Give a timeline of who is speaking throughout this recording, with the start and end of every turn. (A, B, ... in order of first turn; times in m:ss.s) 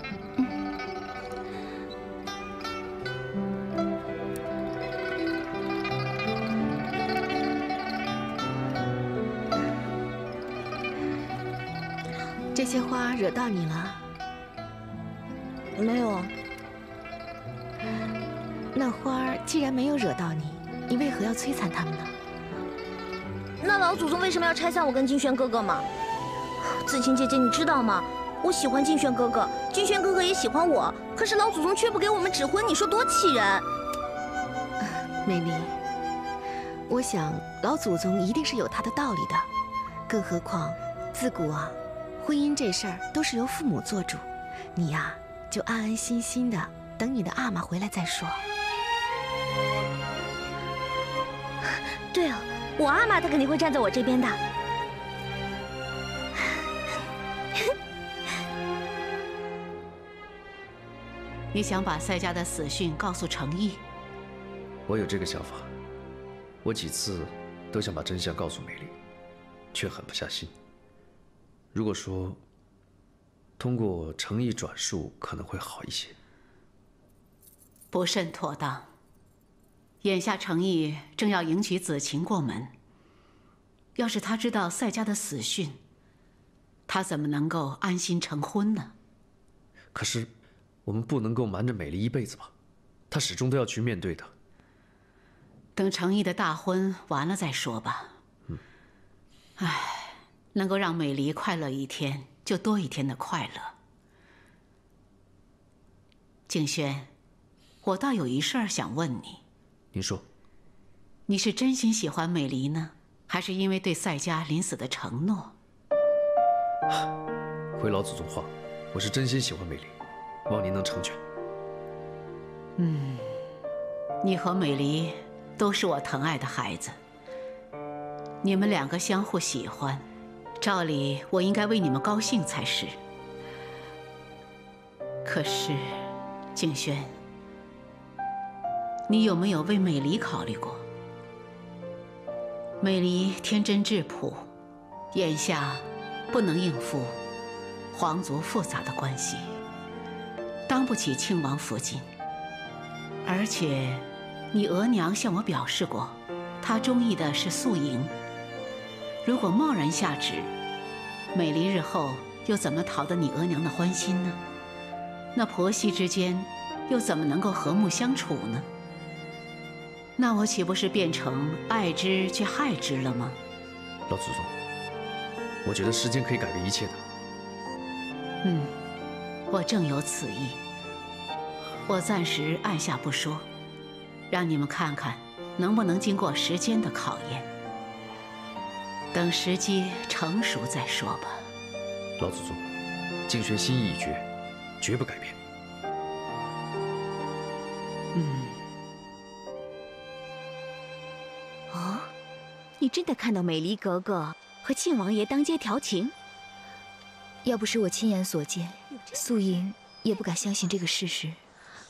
0:12.5-0:14.0 A
0:15.7-0:16.3 B
0:18.7-0:22.1 A
0:23.6-0:25.9 B
0:26.6-0:33.7 B
0:34.8-0:35.8 A
0:36.9-0:39.5 A
0:40.1-0:48.4 A
0:52.1-0:54.4 B
1:01.5-1:03.8 C
1:04.9-1:05.7 D
1:06.6-1:08.9 D
1:09.7-1:10.5 D
1:11.7-1:12.4 D
1:13.6-1:16.1 D
1:17.9-1:18.9 C
1:20.0-1:22.7 C
1:24.0-1:25.8 C
1:26.9-1:28.9 C
1:29.9-1:30.3 D
1:30.8-1:32.5 D
1:33.1-1:34.3 D
1:35.8-1:38.1 C
1:39.6-1:43.7 C
1:46.5-1:47.1 C
1:47.8-1:49.4 C
1:49.9-1:50.2 D
1:51.3-1:55.5 C
1:57.8-1:59.9 D
2:00.5-2:01.2 D
2:02.8-2:03.4 C
2:04.2-2:07.0 C
2:08.4-2:10.0 C
2:10.6-2:13.0 C
2:15.2-2:17.1 C
2:19.1-2:20.8 C
2:22.8-2:24.5 C
2:25.1-2:27.1 C
2:27.9-2:29.5 C
2:30.7-2:32.0 C
2:33.2-2:38.1 C
2:39.2-2:40.5 C
2:41.3-2:44.4 C
2:45.3-2:48.7 C
2:50.2-2:53.4 C
2:54.1-2:54.5 D
2:55.6-2:57.0 D
2:58.4-2:58.7 C
2:59.5-3:00.6 C
3:01.9-3:03.5 C
3:04.3-3:07.5 C
3:09.1-3:11.5 C
3:12.2-3:12.7 D
3:13.3-3:14.3 D
3:14.8-3:15.4 D
3:18.1-3:18.6 C
3:21.7-3:22.1 A
3:22.8-3:26.1 E
3:27.4-3:31.4 A